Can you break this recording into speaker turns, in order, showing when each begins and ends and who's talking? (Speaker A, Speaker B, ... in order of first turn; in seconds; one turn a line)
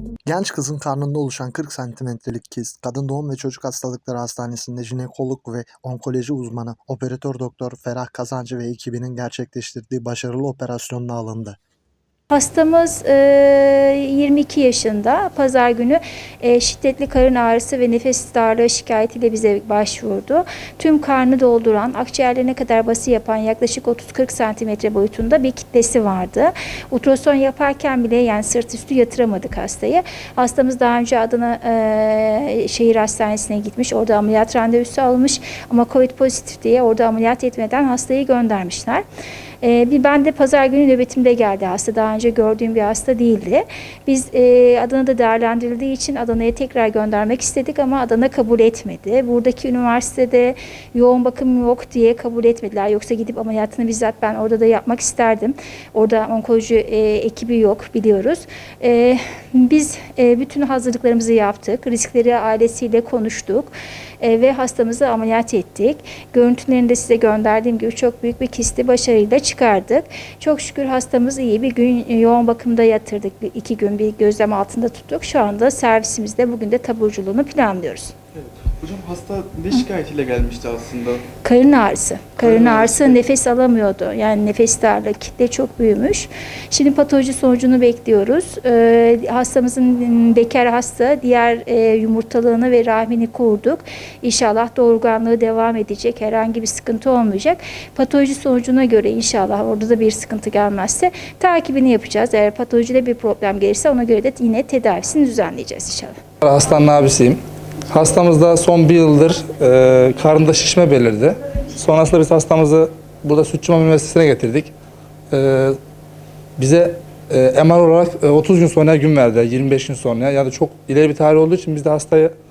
Speaker A: 0.2-11.6
Speaker B: 12.3-39.0
Speaker B: 39.6-78.1
Speaker C: 78.7-81.2
Speaker B: 81.4-106.2
Speaker C: 82.4-83.2
Speaker D: 106.4-114.7
Speaker D: 115.3-115.8
Speaker D: 116.6-122.3